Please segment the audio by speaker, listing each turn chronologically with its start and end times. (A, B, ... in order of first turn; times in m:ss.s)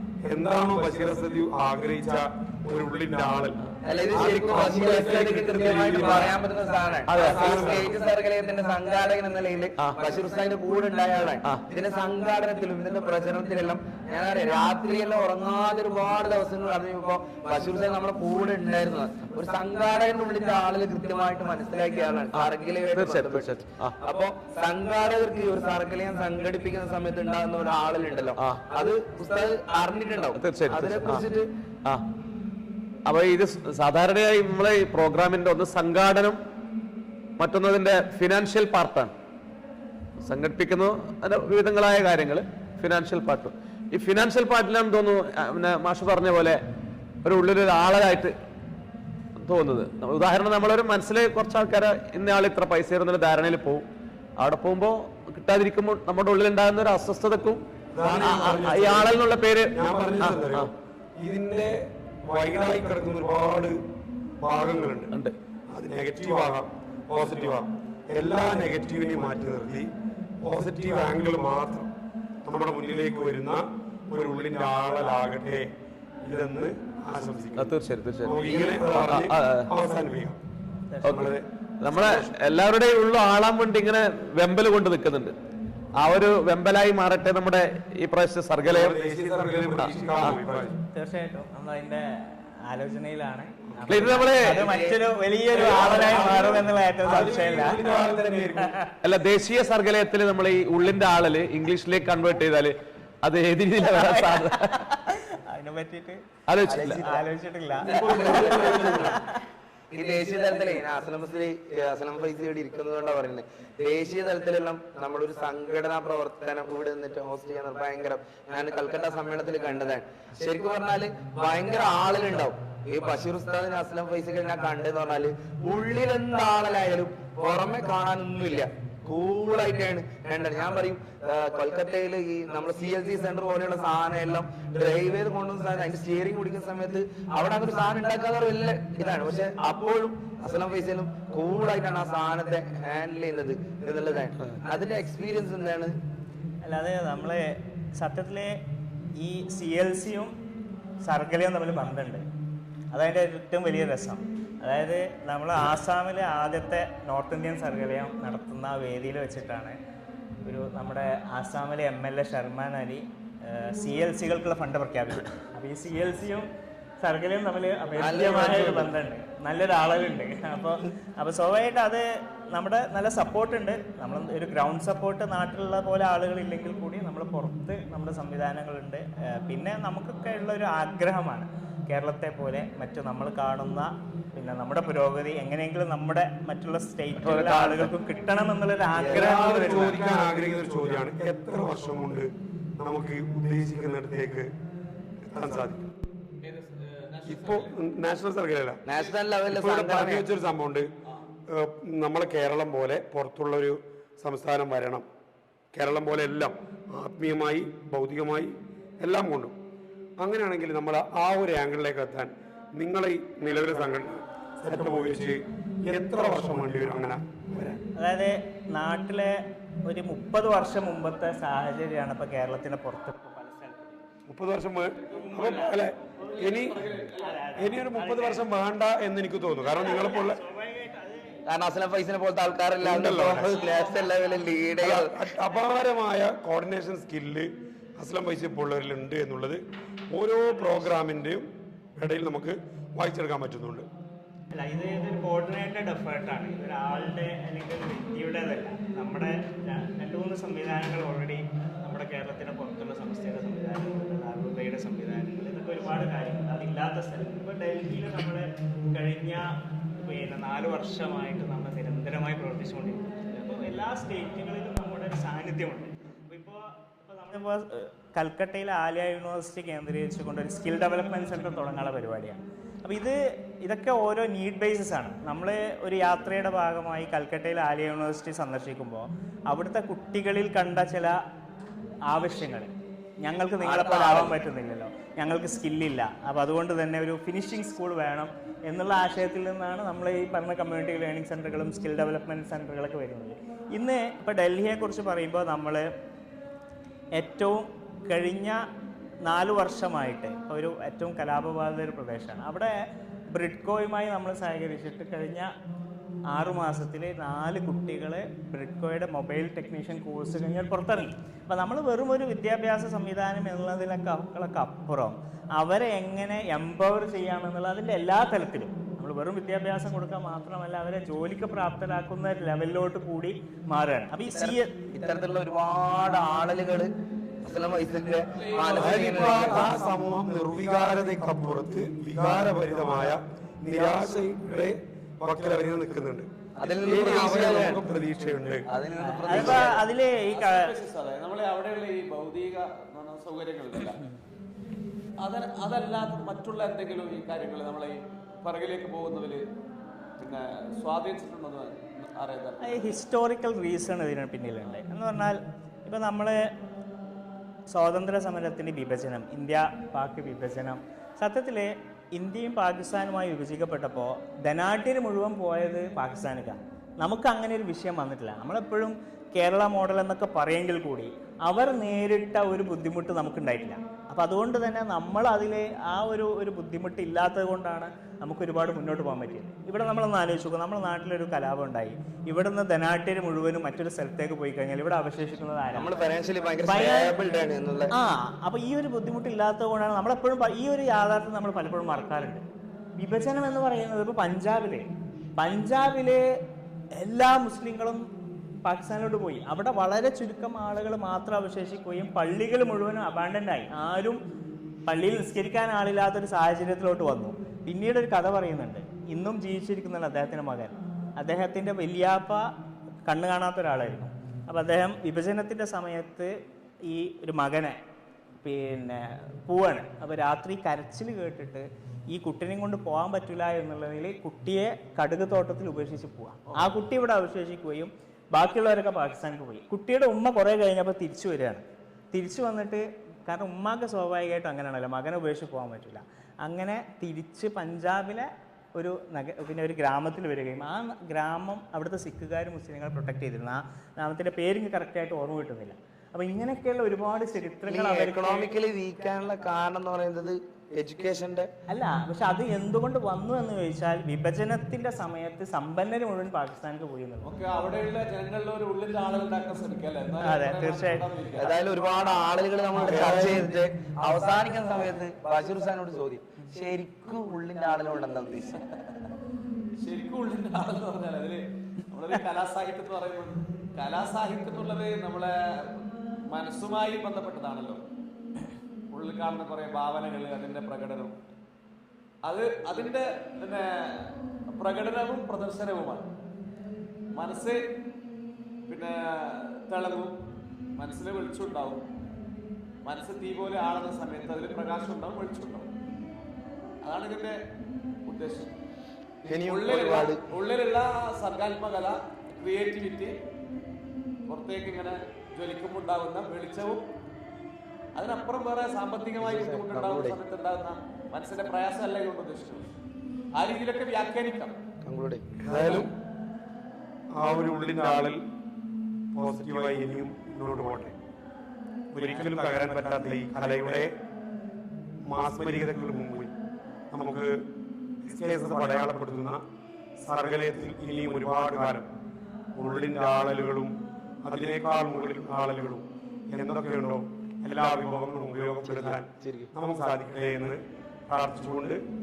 0:00.2-0:03.6 A
0:03.8-0:31.5 B
0:04.1-0:06.3 A
0:04.3-0:06.3 C
0:07.0-0:07.8 C
0:07.1-0:07.9 A
0:22.3-0:23.9 C
0:28.4-0:28.6 C
0:30.3-0:31.2 C
0:33.0-0:36.4 C
0:37.4-0:39.1 C
0:40.2-0:46.6 C
0:47.2-0:48.3 C
0:49.4-0:53.8 C
0:54.4-1:00.7 C
0:57.9-0:59.2 A
0:59.7-1:03.8 A
1:04.4-1:05.1 A
1:05.7-1:09.9 A
1:10.4-1:11.9 A
1:12.4-1:15.7 A
1:16.2-1:17.7 A
1:17.6-1:19.7 C
1:18.2-1:20.4 A
1:20.9-1:21.3 D
1:21.0-1:22.3 A
1:21.0-1:25.3 C
1:26.0-1:28.9 C
1:28.6-1:30.8 A
1:29.8-1:30.4 C
1:30.9-1:37.8 D
1:33.9-1:34.6 C
1:34.5-1:35.0 B
1:35.5-1:38.7 A
1:38.6-1:38.9 D
1:39.0-1:44.8 C
1:43.8-1:46.2 D
1:46.5-1:47.0 C
1:46.7-1:47.2 B
1:46.8-1:49.4 D
1:47.8-1:49.1 B
1:47.8-1:49.2 A
1:49.9-2:25.9 B
2:26.6-2:28.5 D
2:29.2-2:30.3 D
2:31.0-2:32.2 D
2:32.9-2:39.7 D
2:40.4-2:46.5 D
2:47.0-3:10.0 D
2:48.0-2:48.9 B
3:07.2-3:07.9 C
3:09.0-3:09.2 B
3:09.1-3:14.5 A
3:15.3-3:15.9 A
3:16.4-3:17.7 C
3:17.2-3:18.8 A
3:18.9-3:20.2 B
3:18.9-3:19.2 C
3:19.5-3:20.9 A
3:21.5-3:25.0 A
3:25.7-3:29.5 A
3:30.2-3:37.8 A
3:38.0-3:44.0 D
3:44.3-3:46.8 A
3:45.0-3:47.6 C
3:45.1-3:45.7 D
3:47.1-3:48.5 D
3:47.6-3:50.4 A
3:49.6-3:51.4 D
3:51.5-3:55.1 B
3:52.8-3:53.5 A
3:53.4-3:54.5 D
3:54.8-4:01.4 A
4:00.5-4:01.0 D
4:02.0-4:03.9 A
4:04.5-4:41.2 D
4:42.1-4:42.7 D
4:43.2-4:55.9 D
4:43.6-4:44.4 B
4:57.1-4:58.6 D
4:59.2-5:02.7 D
5:03.3-5:05.5 D
5:06.3-5:24.7 D
5:24.3-5:26.9 B
5:27.4-5:29.7 B
5:28.3-5:29.7 C
5:28.8-5:38.6 A
5:36.6-5:37.8 B
5:38.7-5:39.8 B
5:39.0-5:40.7 D
5:39.3-5:39.6 A
5:39.4-5:39.6 C
5:40.3-5:44.0 C
5:45.2-5:49.4 C
5:50.2-5:52.9 C
5:52.6-5:56.4 D
5:57.7-6:25.9 D
6:25.7-6:27.9 B
6:26.6-6:27.1 D
6:27.9-6:32.4 D
6:33.0-6:36.3 D
6:37.0-6:38.0 D
6:38.6-6:44.2 D
6:44.8-6:52.5 D
6:53.0-6:56.3 D
6:56.8-6:57.8 D
6:58.4-7:28.5 D
7:27.7-7:31.5 B
7:31.7-7:37.3 D
7:37.2-7:41.6 C
7:40.2-7:41.0 D
7:41.4-7:48.6 B
7:42.8-7:43.2 C
7:42.8-7:43.4 A
7:49.8-7:57.8 C
7:58.9-8:01.2 C
8:02.2-8:06.1 C
8:07.1-8:07.6 C
8:08.7-8:10.2 C
8:10.8-8:11.8 C
8:12.8-8:15.7 C
8:16.8-8:17.4 C
8:18.0-8:18.5 C
8:19.2-8:20.2 B
8:19.2-8:23.2 C
8:24.3-8:26.8 C
8:27.9-8:32.7 C
8:29.2-8:30.2 B
8:33.3-8:34.6 C
8:34.8-8:35.4 B
8:35.4-8:35.9 A
8:35.5-8:35.9 C
8:37.1-8:38.2 A
8:39.1-8:40.9 A
8:41.9-8:43.9 A
8:45.1-8:46.3 A
8:46.9-8:47.3 A
8:48.0-8:49.4 A
8:50.0-8:51.9 A
8:52.6-9:01.8 A
8:58.7-8:59.5 B